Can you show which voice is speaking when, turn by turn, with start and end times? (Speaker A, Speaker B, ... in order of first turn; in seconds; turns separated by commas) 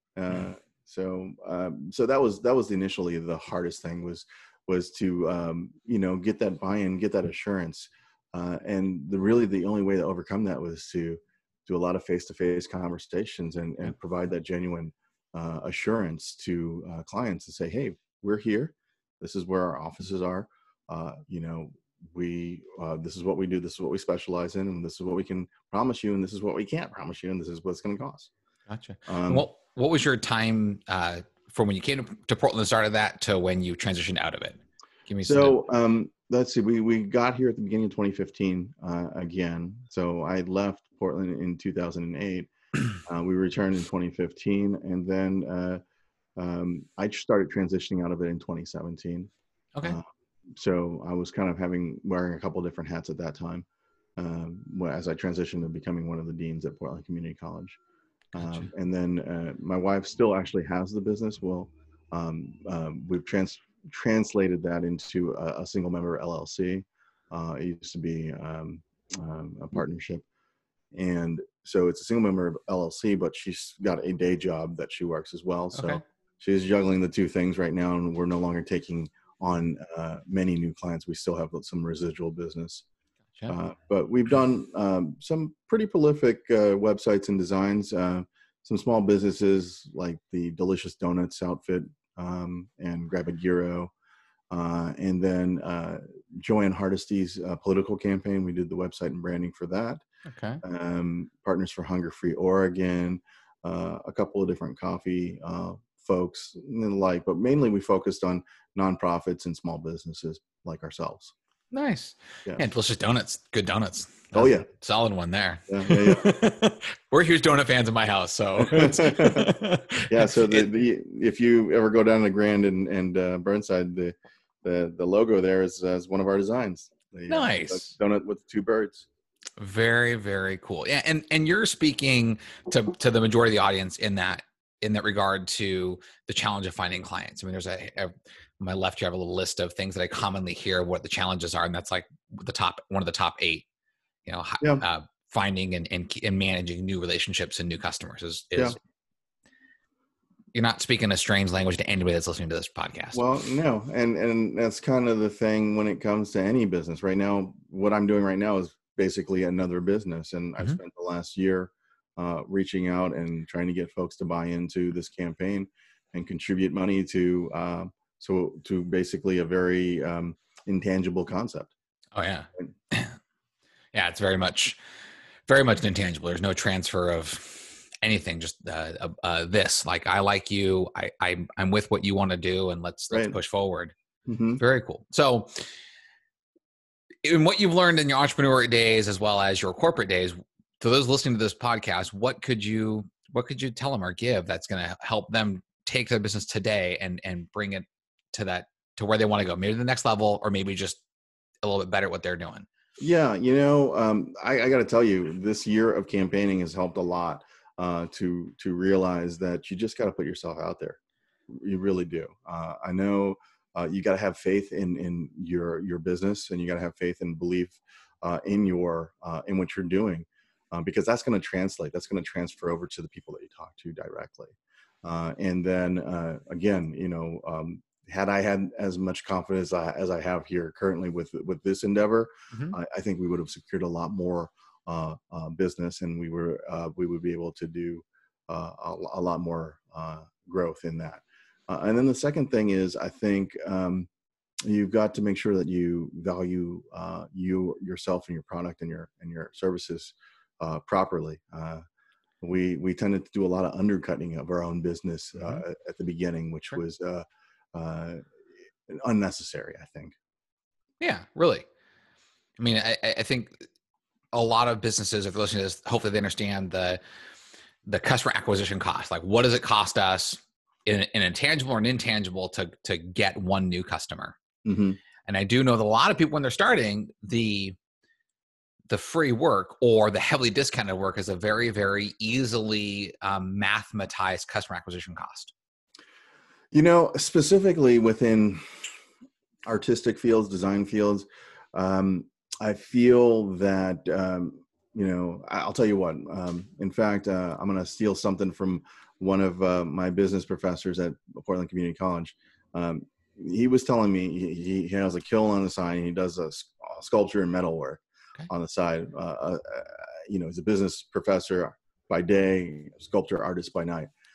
Speaker A: 0.1-28.3, Speaker B: 28.7-35.6, Speaker A: 29.1-29.5, Speaker A: 35.2-42.5, Speaker A: 43.0-45.8, Speaker A: 46.4-53.6, Speaker A: 54.2-57.8, Speaker B: 58.3-58.7, Speaker A: 58.3-70.2, Speaker A: 70.9-82.8, Speaker B: 75.7-76.0, Speaker A: 83.5-93.9, Speaker A: 94.5-100.0, Speaker B: 100.2-100.6, Speaker A: 100.6-111.3, Speaker B: 111.7-120.7, Speaker A: 114.3-114.7, Speaker A: 115.7-116.2, Speaker A: 118.6-119.5, Speaker A: 120.1-129.1, Speaker B: 127.3-127.9, Speaker B: 129.6-143.7, Speaker B: 144.2-148.8, Speaker B: 150.5-153.2, Speaker A: 153.1-171.7, Speaker B: 172.1-173.2, Speaker B: 173.9-174.8, Speaker B: 175.5-183.9, Speaker A: 184.3-184.6, Speaker B: 184.6-185.6, Speaker B: 187.2-201.0, Speaker B: 201.6-202.7, Speaker A: 203.0-244.1, Speaker A: 244.6-251.8, Speaker A: 252.4-258.2, Speaker B: 255.3-255.6, Speaker A: 258.9-260.1, Speaker B: 261.0-261.6, Speaker B: 262.6-263.6, Speaker B: 264.3-267.0, Speaker B: 267.8-274.4, Speaker A: 274.6-275.0, Speaker B: 275.2-277.8, Speaker B: 278.9-285.5, Speaker A: 286.7-288.9, Speaker A: 289.6-314.1